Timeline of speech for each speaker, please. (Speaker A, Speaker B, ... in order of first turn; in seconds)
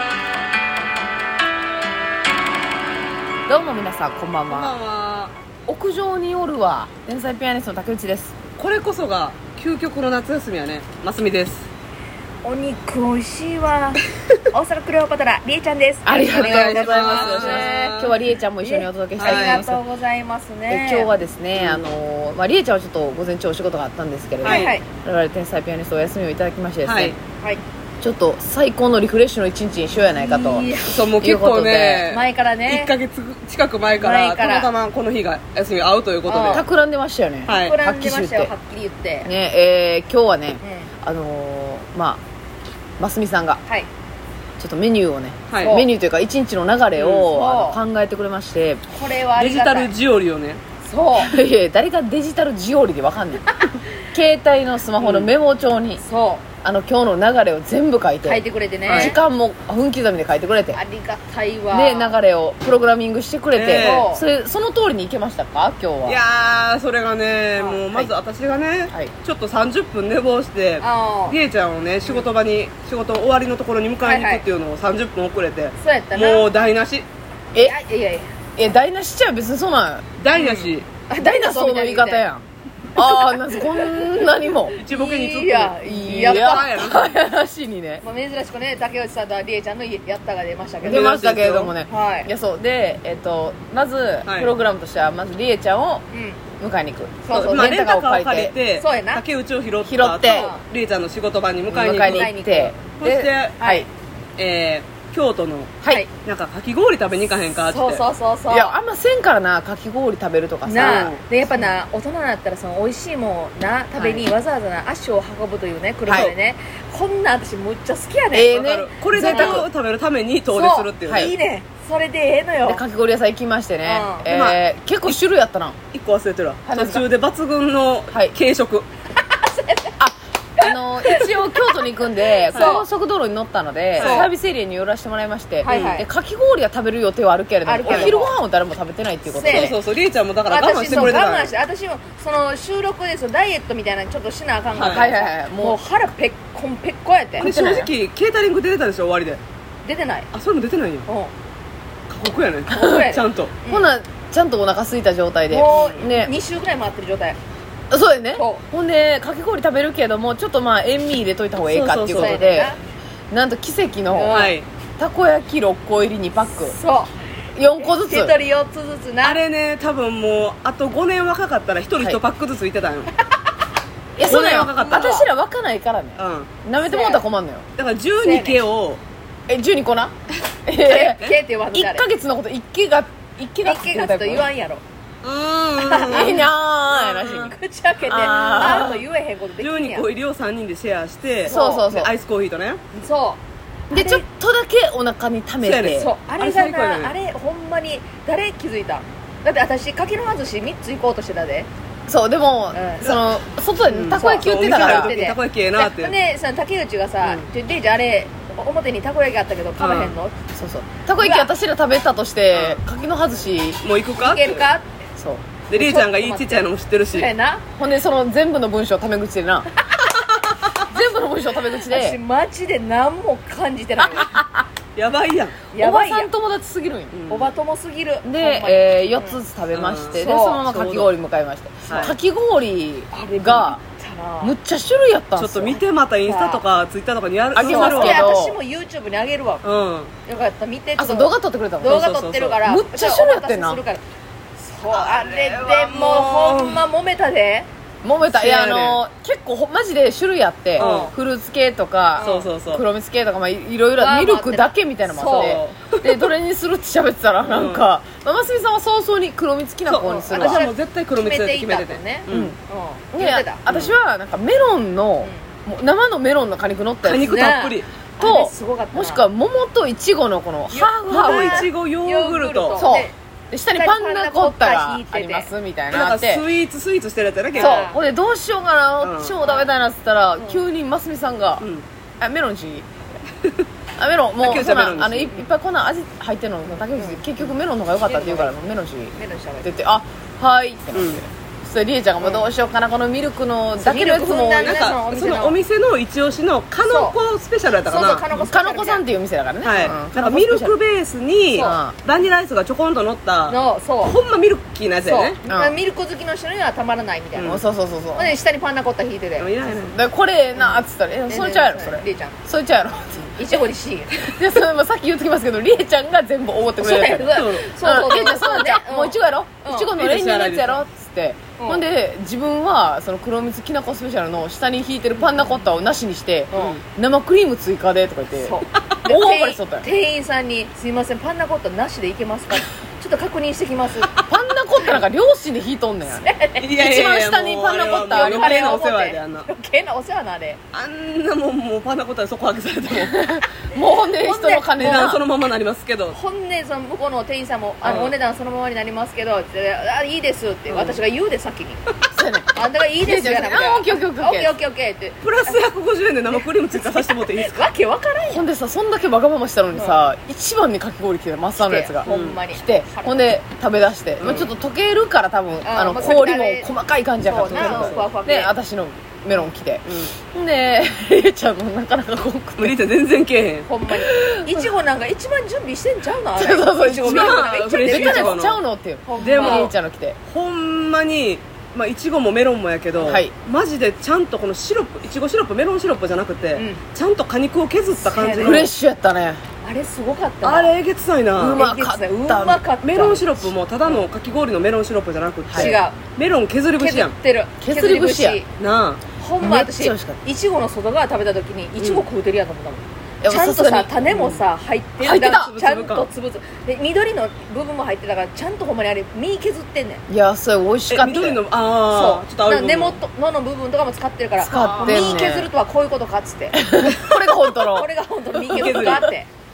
Speaker A: 3.5-4.7, 5.7-8.4, 16.1-19.8, 20.7-27.2, 28.0-32.1, 36.5-38.5, 39.2-42.2, 43.0-43.6, 44.6-48.8, 51.2-56.0, 56.6-60.8, 61.7-66.2, 78.6-80.1, 81.1-82.5, 83.0-84.8, 85.8-88.0, 90.8-96.0, 96.6-98.5, 99.8-100.5, 101.7-103.9, 108.5-111.7, 116.1-116.3, 118.3-119.7, 121.1-121.3, 122.7-125.8, 126.7-127.0, 130.0-139.8, 144.8-145.8, 147.4-147.9, 152.7-153.0, 153.7-156.3, 157.9-162.8, 163.3-166.8, 167.6-168.3, 174.2-177.7, 179.5-180.1, 180.7-184.5, 186.1-187.6, 188.1-189.0, 191.5-192.1, 193.9-196.1, 202.1-205.2, 210.5-213.8, 215.2-215.4, 217.8-219.7, 220.9-222.2, 224.0-224.7, 225.8-227.2, 228.2-233.8, 234.4-235.8, 237.5-238.6, 241.0-242.1, 242.6-243.8, 248.0-260.6, 262.3-262.6, 263.1-267.4, 268.2-271.7, 272.8-276.4, 277.6-281.7, 282.2-282.9, 284.0-294.8, 298.0-300.8, 301.6-301.9, 305.5-305.8, 307.4-308.4, 309.9-313.6, 314.3-329.9, 334.2-338.8, 342.9-345.2, 352.1-354.6, 358.3-372.8, 374.0-374.7, 376.4-380.2, 383.0-383.3, 388.4-389.4, 391.4-392.6, 395.5-395.8, 397.6-398.4, 399.4-400.2, 403.2-404.1, 405.0-405.5, 410.1-411.4, 414.4-415.5, 416.5-417.9, 418.5-419.1
Speaker B: 4.5-5.3, 8.6-11.7, 16.3-18.2, 19.2-19.6, 21.6-21.8, 24.4-24.7, 26.8-27.2, 30.9-36.7, 37.5-37.8, 45.5-45.8, 47.0-47.3, 49.4-50.6, 55.0-55.3, 58.9-59.2, 63.5-64.1, 66.1-77.1, 80.2-80.9, 84.8-87.2, 90.8-91.7, 94.2-94.5, 97.3-102.3, 103.0-103.6, 104.4-108.0, 110.8-111.2, 114.0-114.3, 118.5-121.3, 124.3-125.2, 125.9-128.9, 132.5-132.8, 134.0-134.3, 135.7-136.0, 137.8-138.3, 139.5-141.5, 144.7-145.1, 147.4-149.4, 150.3-151.1, 152.1-153.5, 155.7-156.1, 161.7-162.5, 164.3-164.7, 169.2-173.1, 174.2-175.2, 176.2-176.5, 177.8-179.0, 185.2-186.5, 189.6-192.8, 195.6-197.2, 203.8-206.2, 209.8-210.2, 212.5-212.8, 213.8-214.7, 215.7-217.3, 220.5-220.8, 225.0-225.6, 227.1-227.5, 229.7-230.2, 231.9-232.2, 235.4-238.3, 239.6-240.1, 241.8-242.6, 244.9-246.8, 248.3-249.0, 250.8-251.1, 252.2-252.8, 255.1-256.3, 257.4-257.9, 259.9-262.6, 263.7-263.9, 267.0-267.9, 271.1-272.9, 275.9-277.9, 279.0-279.4, 284.4-285.4, 290.9-291.2, 294.6-298.3, 299.6-305.4, 307.4-307.6, 309.4-310.0, 317.3-317.7, 319.9-320.8, 336.6-339.5, 340.7-343.2, 344.8-346.2, 347.8-348.2, 350.7-351.0, 355.2-357.7, 362.1-362.4, 364.2-364.5, 367.4-368.1, 369.9-370.1, 372.6-373.7, 377.0-378.6, 379.2-379.7, 380.3-388.7, 390.4-391.6, 392.8-397.1, 398.6-399.0, 401.8-402.1, 404.1-404.4, 405.4-406.1, 410.9-413.0, 414.4-415.2, 418.4-419.1
Speaker C: 12.4-18.0, 18.6-21.1, 24.4-24.9, 30.1-31.1, 32.1-32.9, 33.9-34.7, 36.3-36.7, 37.5-39.3, 40.6-40.9, 45.6-45.9, 47.3-47.8, 48.9-49.9, 50.8-51.3, 53.5-53.8, 56.0-56.5, 58.2-59.2, 60.7-62.1, 63.7-64.2, 70.8-71.4, 74.0-74.5, 75.8-76.5, 77.6-78.3, 80.3-82.2, 83.0-84.2, 84.8-86.8, 88.0-91.1, 91.9-92.3, 96.1-96.4, 97.2-97.8, 98.7-99.2, 100.2-100.6, 101.9-102.8, 103.6-103.9, 107.7-108.8, 110.7-118.6, 119.2-119.7, 120.5-122.8, 123.8-124.3, 129.3-130.0, 130.6-132.9, 134.0-134.3, 135.6-136.1, 137.7-138.3, 139.3-139.8, 140.5-147.5, 149.8-150.3, 151.1-151.3, 152.7-153.9, 155.5-157.4, 158.4-158.6, 162.1-162.8, 164.1-164.6, 166.7-167.1, 167.8-169.4, 174.8-175.3, 176.8-177.2, 178.2-178.6, 180.8-182.1, 183.6-184.8, 185.8-190.1, 191.4-191.9, 192.9-193.4, 193.9-194.2, 195.9-201.7, 202.7-203.2, 204.2-210.3, 211.2-211.5, 214.2-214.9, 215.7-217.6, 221.8-224.3, 225.7-226.3, 227.3-229.4, 230.2-231.1, 233.1-234.6, 236.2-236.6, 237.6-239.6, 240.3-244.0, 244.6-247.7, 250.8-251.1, 252.2-252.5, 254.0-255.6, 260.3-263.6, 267.2-269.3, 270.7-273.1, 273.7-275.5, 277.5-278.0, 279.4-279.7, 280.4-280.6, 286.9-287.2, 288.0-288.6, 289.1-289.7, 292.2-292.5, 293.8-295.6, 296.9-297.2, 297.8-299.1, 301.5-301.8, 303.5-304.2, 305.0-309.5, 311.3-312.4, 313.4-314.4, 316.8-319.9, 321.6-321.9, 326.5-326.8, 328.4-334.1, 336.1-336.7, 337.8-340.6, 344.2-345.2, 346.1-351.8, 352.6-355.7, 356.4-358.5, 359.7-360.0, 361.6-363.3, 365.6-366.7, 367.2-368.5, 373.7-378.4, 379.1-379.7, 386.5-386.8, 388.0-388.7, 389.6-390.8, 391.6-393.2, 395.5-396.0, 396.8-398.5, 399.2-410.0, 411.9-416.7, 417.6-419.3